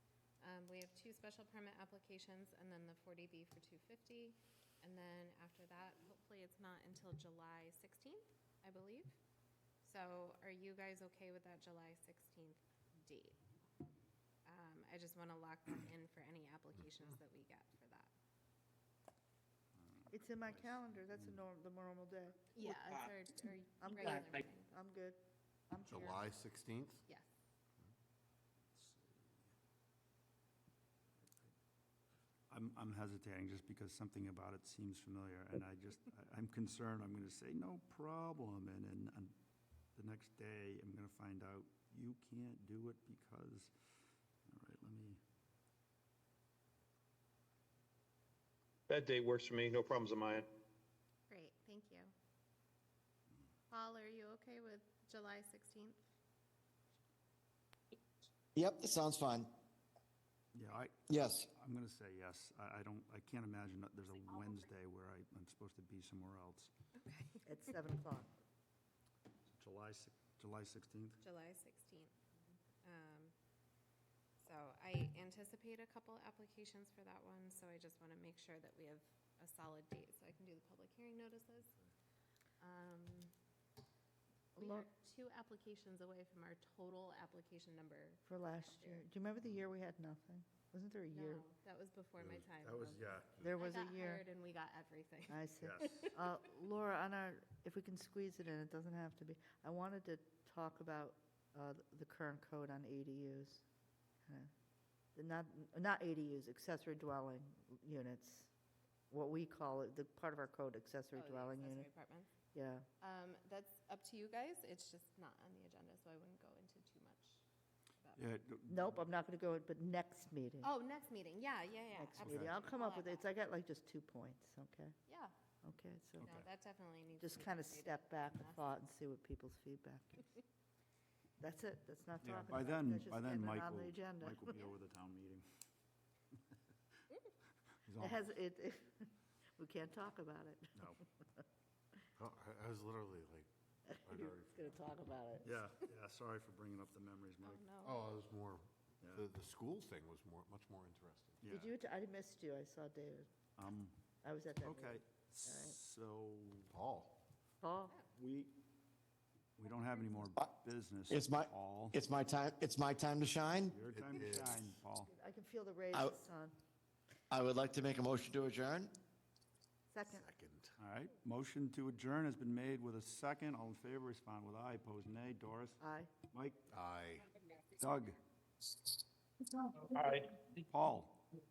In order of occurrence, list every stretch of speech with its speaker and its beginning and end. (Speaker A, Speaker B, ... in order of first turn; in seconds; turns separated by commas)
Speaker A: 0.4-9.1, Speaker A: 9.8-13.4, Speaker A: 14.4-18.1, Speaker B: 19.8-21.3, Speaker C: 20.1-22.4, Speaker A: 22.6-24.7, Speaker C: 23.8-25.2, Speaker C: 25.7-26.2, Speaker D: 25.9-27.0, Speaker B: 28.7-29.3, Speaker B: 32.5-39.3, Speaker B: 40.0-43.7, Speaker B: 44.5-45.2, Speaker E: 48.9-50.5, Speaker A: 51.3-52.1, Speaker A: 53.7-56.0, Speaker F: 58.5-59.5, Speaker B: 60.5-66.7, Speaker F: 61.1-61.5, Speaker A: 67.0-67.4, Speaker C: 67.4-68.3, Speaker B: 69.5-71.2, Speaker A: 71.2-72.1, Speaker A: 72.8-73.3, Speaker A: 74.4-81.7, Speaker A: 82.6-83.3, Speaker C: 84.6-84.9, Speaker A: 84.6-89.0, Speaker C: 88.2-91.4, Speaker A: 91.1-93.0, Speaker D: 92.2-92.9, Speaker B: 92.6-93.5, Speaker C: 93.4-94.2, Speaker A: 93.6-96.1, Speaker C: 95.3-103.6, Speaker B: 95.6-96.1, Speaker C: 105.1-108.5, Speaker C: 109.1-111.9, Speaker A: 111.1-112.3, Speaker C: 112.5-112.9, Speaker A: 113.0-117.4, Speaker B: 118.2-119.0, Speaker C: 118.7-120.7, Speaker A: 120.6-123.3, Speaker C: 121.9-124.9, Speaker B: 122.2-122.5, Speaker A: 125.1-125.3, Speaker C: 125.6-126.3, Speaker B: 126.2-126.5, Speaker A: 126.2-128.6, Speaker C: 127.2-130.2, Speaker C: 131.4-134.6, Speaker B: 132.2-135.4, Speaker B: 137.8-138.3, Speaker C: 138.0-141.0, Speaker B: 140.8-141.0, Speaker D: 142.2-143.5, Speaker C: 143.9-145.6, Speaker D: 144.0-144.6, Speaker B: 145.4-147.6, Speaker A: 147.4-148.1, Speaker D: 147.8-151.4, Speaker B: 149.0-149.3, Speaker B: 151.4-151.7, Speaker C: 151.5-153.3, Speaker B: 153.6-153.9, Speaker C: 154.2-155.8, Speaker B: 154.6-156.7, Speaker D: 156.7-157.2, Speaker C: 157.6-158.0, Speaker B: 158.2-158.5, Speaker B: 159.6-162.0, Speaker F: 161.1-163.8, Speaker B: 163.7-165.1, Speaker D: 163.8-164.8, Speaker C: 165.1-166.5, Speaker F: 167.3-168.9, Speaker C: 169.9-170.2, Speaker D: 170.1-170.7, Speaker B: 170.8-175.8, Speaker C: 175.8-176.1, Speaker B: 176.3-176.6, Speaker D: 176.7-177.3, Speaker B: 177.7-178.2, Speaker E: 179.8-180.5, Speaker B: 180.6-181.2